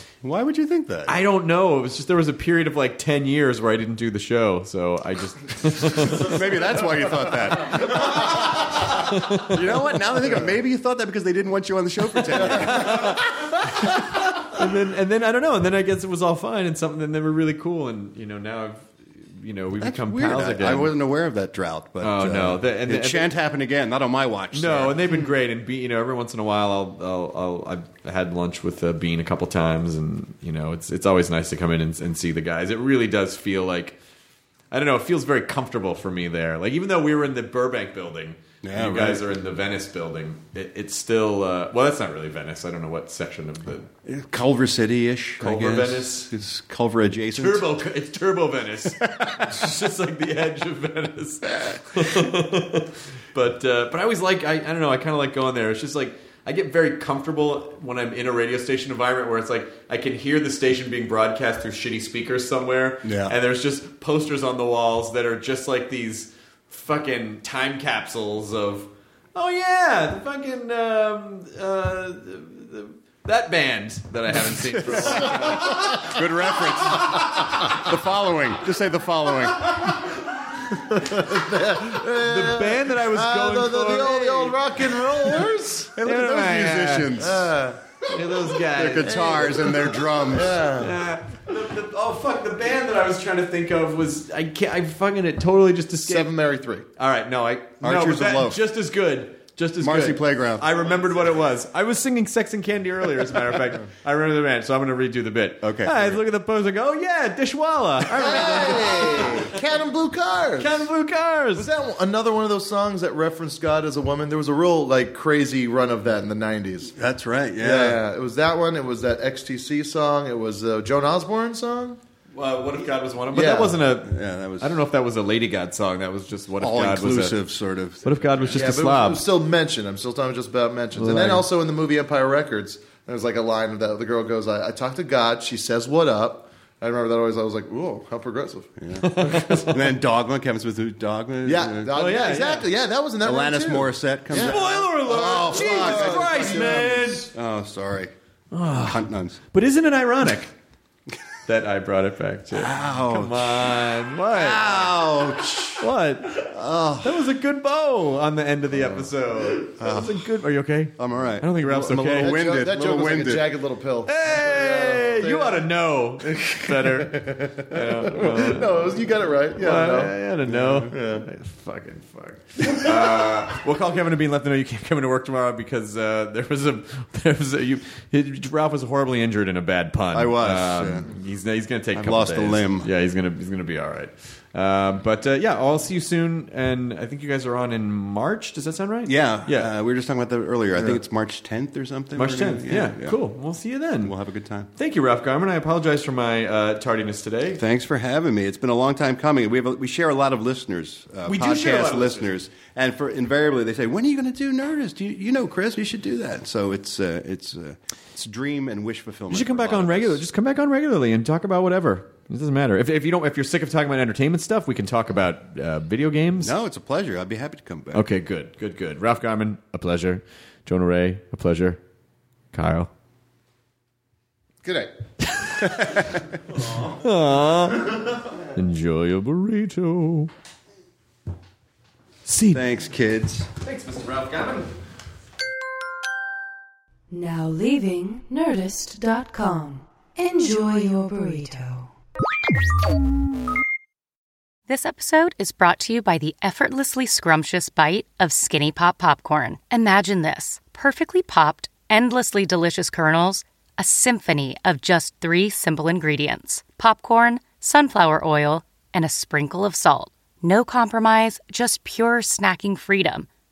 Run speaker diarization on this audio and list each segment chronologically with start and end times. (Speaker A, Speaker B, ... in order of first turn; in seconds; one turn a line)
Speaker A: 0.2-1.2
Speaker B: 1.1-6.3
Speaker A: 5.9-13.2
Speaker B: 8.0-8.3
Speaker B: 8.8-9.6
Speaker B: 12.3-20.9
Speaker A: 19.8-25.1
Speaker B: 22.0-23.3
Speaker B: 24.5-34.0
Speaker B: 34.7-43.9
Speaker A: 38.6-39.2
Speaker A: 44.0-47.7
Speaker B: 45.4-46.3
Speaker B: 47.3-76.1
Speaker A: 49.0-49.5
Speaker A: 63.0-63.4
Speaker A: 74.5-80.1
Speaker C: 75.6-75.9
Speaker C: 80.7-85.9
Speaker B: 81.9-85.3
Speaker A: 86.0-87.6
Speaker B: 86.0-87.2
Speaker C: 87.2-88.1
Speaker B: 88.1-89.7
Speaker A: 88.6-90.7
Speaker C: 89.0-90.9
Speaker B: 90.8-96.3
Speaker C: 96.1-96.9
Speaker B: 97.0-109.6
Speaker A: 97.8-98.6
Speaker A: 99.8-101.0
Speaker A: 105.6-106.2
Speaker C: 108.1-110.9
Speaker B: 110.6-111.7
Speaker C: 111.6-116.9
Speaker A: 116.9-118.0
Speaker C: 117.6-122.0
Speaker B: 122.3-127.4
Speaker C: 123.3-123.8
Speaker A: 124.0-124.8
Speaker A: 126.6-128.6
Speaker B: 128.0-129.2
Speaker C: 128.5-138.8
Speaker B: 130.9-131.5
Speaker A: 138.8-141.9
Speaker B: 138.9-139.8
Speaker C: 141.4-147.2
Speaker B: 141.9-142.7
Speaker A: 143.2-148.1
Speaker B: 144.3-147.3
Speaker B: 148.5-150.5
Speaker A: 148.7-149.4
Speaker B: 151.5-154.8
Speaker A: 152.5-157.3
Speaker B: 155.8-156.5
Speaker B: 157.0-162.4
Speaker A: 158.8-160.3
Speaker A: 161.0-163.6
Speaker C: 162.2-165.7
Speaker B: 164.1-168.9
Speaker C: 166.2-171.3
Speaker B: 169.6-189.7
Speaker A: 180.1-181.1
Speaker A: 181.9-182.9
Speaker A: 189.1-193.2
Speaker B: 192.1-194.1
Speaker A: 194.0-194.7
Speaker B: 194.7-197.6
Speaker A: 197.6-210.2
Speaker B: 201.3-202.3
Speaker B: 209.3-216.6
Speaker A: 216.4-218.1
Speaker B: 217.9-221.8
Speaker B: 222.5-222.9
Speaker C: 224.6-224.9
Speaker B: 225.2-225.9
Speaker B: 226.7-230.3
Speaker B: 232.3-232.6
Speaker A: 232.5-233.5
Speaker B: 233.6-234.7
Speaker D: 237.1-241.9
Speaker E: 244.7-263.3